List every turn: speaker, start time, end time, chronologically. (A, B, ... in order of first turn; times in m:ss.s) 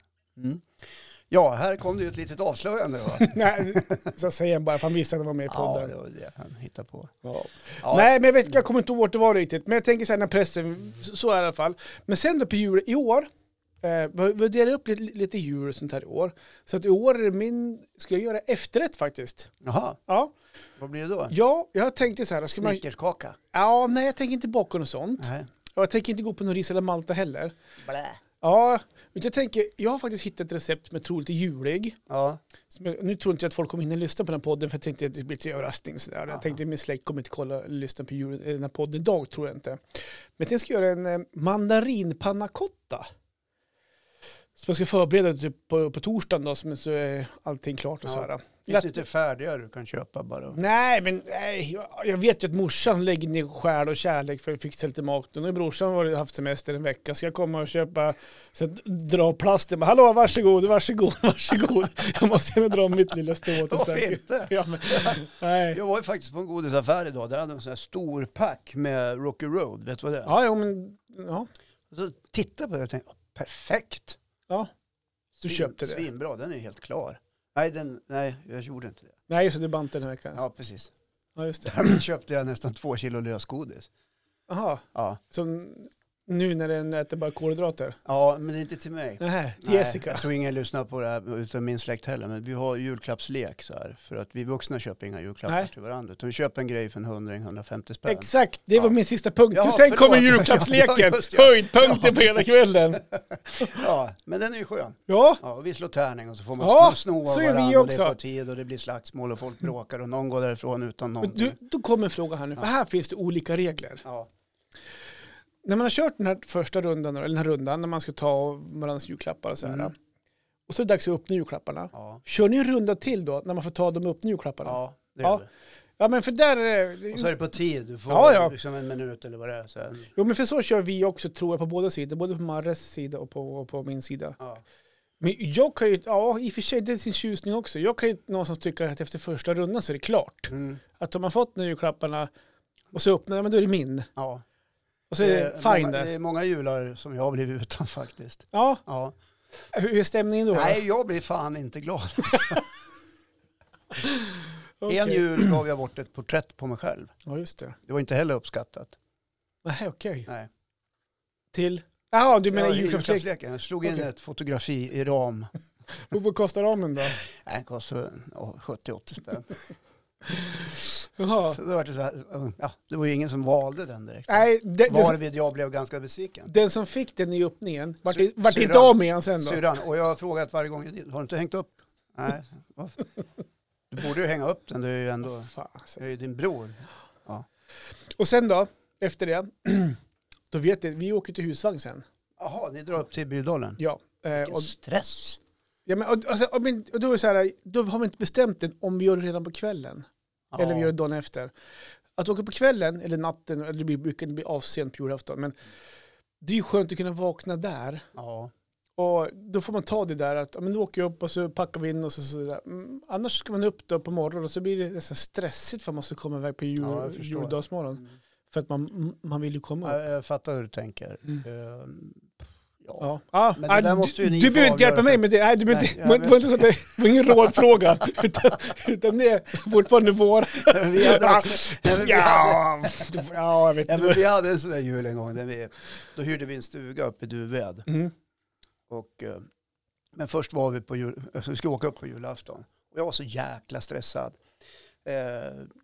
0:00.4-0:04.1 A
0:03.3-0:05.9 B
0:05.5-0:07.2 A
0:07.2-0:13.3 B
0:07.8-0:08.1 A
0:13.8-0:19.5 B
0:19.6-0:20.0 A
0:20.1-0:20.3 B
0:20.8-0:21.3 A
0:21.3-0:22.8 B
0:22.5-0:23.4 A
0:23.5-0:27.5 B
0:25.2-0:25.5 A
0:27.8-0:28.2 A
0:28.4-0:32.0 B
0:32.1-0:32.4 A
0:32.7-0:43.1 B
0:36.3-0:36.6 A
0:44.6-0:49.0 B
0:48.0-0:50.6 A
0:50.5-1:05.8 B
1:03.6-1:10.3 A
1:10.2-1:11.5 B
1:11.9-1:14.2 A
1:15.4-1:19.2 A
1:15.4-1:16.0 B
1:19.3-1:20.4 B
1:20.3-1:20.9 A
1:21.4-1:22.0 B
1:21.6-1:23.9 A
1:24.5-1:28.0 B
1:24.9-1:25.2 A
1:28.0-1:38.9 A
1:29.2-1:30.2 B
1:38.1-1:43.1 B
1:39.5-1:42.3 A
1:43.1-1:51.6 A
1:45.1-1:45.4 B
1:46.6-1:48.2 B
1:51.2-1:54.0 B
1:54.0-1:54.3 A
1:55.6-1:59.9 B
1:59.6-1:59.9 A
2:00.7-2:05.4 B
2:01.9-2:02.2 A
2:04.6-2:05.5 A
2:06.0-2:07.3 B
2:07.1-2:10.1 A
2:08.1-2:08.5 B
2:10.1-2:14.4 B
2:15.2-2:22.3 B
2:20.5-2:20.8 A
2:22.9-2:24.1 B
2:24.2-2:24.4 A
2:25.1-2:26.1 B
2:25.2-2:29.1 A
2:28.5-2:28.8 B
2:29.7-2:30.8 B
2:30.5-2:32.6 A
2:34.8-2:35.6 B
2:34.9-2:37.2 A
2:37.2-2:37.8 B
2:37.8-2:39.0 A
2:39.6-2:40.3 B
2:41.5-2:43.2 B
2:42.5-2:45.5 A
2:46.1-2:47.2 B
2:47.2-2:49.7 A
2:51.2-2:51.6 B
2:51.5-2:56.5 A
2:54.3-2:55.2 B
2:56.5-2:59.6 B
2:58.0-3:03.1 A
3:03.9-3:07.4 A
3:05.5-3:06.0 B
3:08.2-3:10.0 B
3:10.5-3:12.0 B
3:12.4-3:13.8 A
3:13.8-3:14.7 B
3:14.3-3:15.4 A
3:15.8-3:21.5 B
3:20.5-3:20.9 A
3:22.2-3:25.6 B
3:26.4-3:28.0 B
3:28.1-3:28.5 A
3:29.0-3:40.0 B
3:36.8-3:38.1 A
3:39.8-3:43.0 A
3:43.0-3:54.2 B
3:43.6-3:47.3 A
3:50.6-3:53.3 A
3:53.8-3:57.9 A
3:57.9-3:58.1 B
3:58.9-3:59.5 A
4:00.1-4:04.4 A
4:05.0-4:05.7 A